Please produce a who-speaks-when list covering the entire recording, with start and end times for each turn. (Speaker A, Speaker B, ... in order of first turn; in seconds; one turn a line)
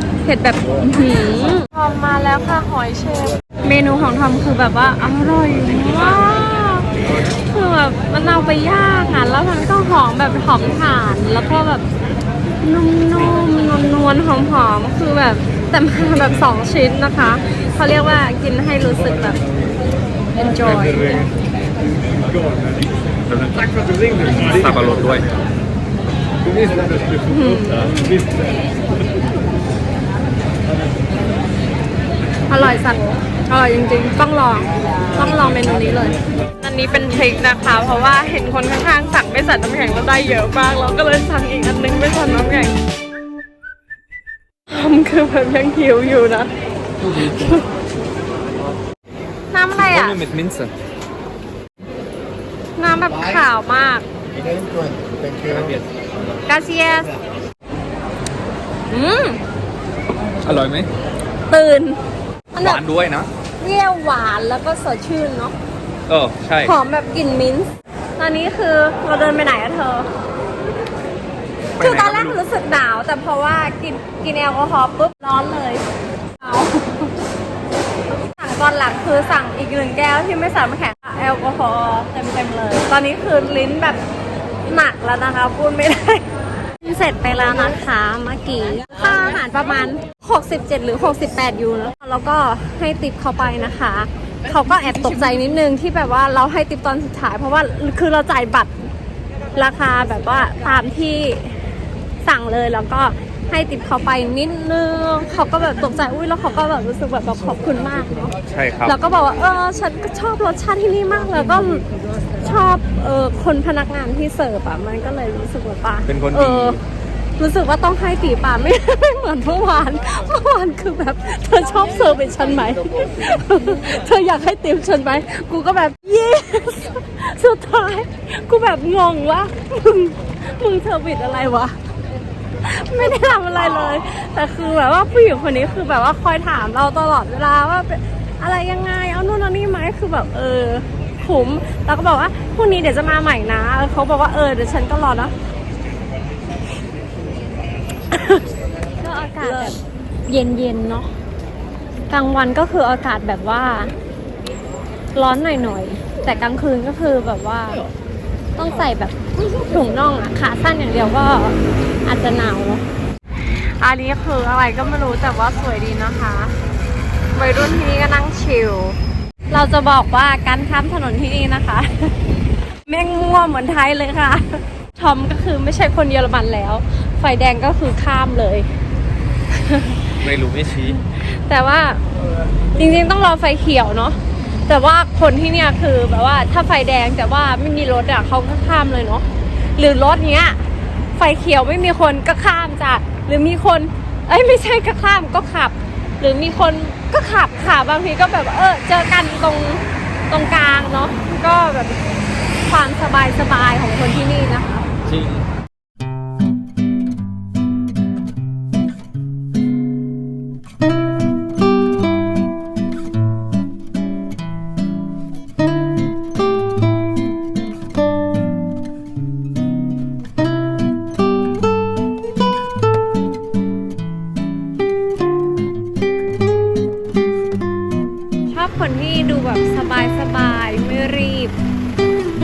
Speaker A: 0.2-11.8
Speaker A: 12.6-19.4
Speaker A: 20.3-21.3
Speaker B: 23.3-25.3
Speaker A: 27.3-28.2
Speaker A: 32.5-42.8
Speaker A: 44.7-46.5
Speaker A: 47.0-47.6
Speaker A: 49.5-50.2
Speaker B: 49.7-50.7
Speaker A: 52.8-54.0
Speaker B: 55.3-55.9
Speaker A: 56.5-57.1
Speaker A: 58.9-59.4
Speaker B: 60.4-60.9
Speaker A: 61.5-62.0
Speaker A: 62.5-62.8
Speaker B: 62.6-63.3
Speaker A: 63.6-65.5
Speaker B: 66.1-66.7
Speaker A: 66.6-70.1
Speaker B: 71.8-72.4
Speaker A: 71.8-75.8
Speaker A: 76.4-77.1
Speaker A: 78.3-84.0
Speaker A: 84.6-86.2
Speaker A: 86.8-98.7
Speaker A: 99.5-101.6
Speaker A: 102.2-108.3
Speaker B: 108.5-109.0
Speaker A: 108.8-111.8
Speaker A: 112.4-116.8
Speaker B: 116.1-116.8
Speaker A: 117.4-131.8
Speaker A: 132.6-145.3
Speaker A: 148.1-148.4
Speaker A: 149.0-151.1
Speaker A: 152.1-153.9
Speaker A: 155.1-157.9
Speaker A: 158.6-162.8
Speaker A: 163.8-166.5
Speaker A: 167.3-169.0
Speaker A: 169.5-172.1
Speaker A: 172.8-178.7
Speaker A: 179.6-180.1
Speaker B: 180.2-181.0
Speaker A: 181.1-182.0
Speaker A: 182.7-202.0
Speaker A: 202.6-204.9
Speaker B: 205.0-205.5
Speaker A: 228.5-231.6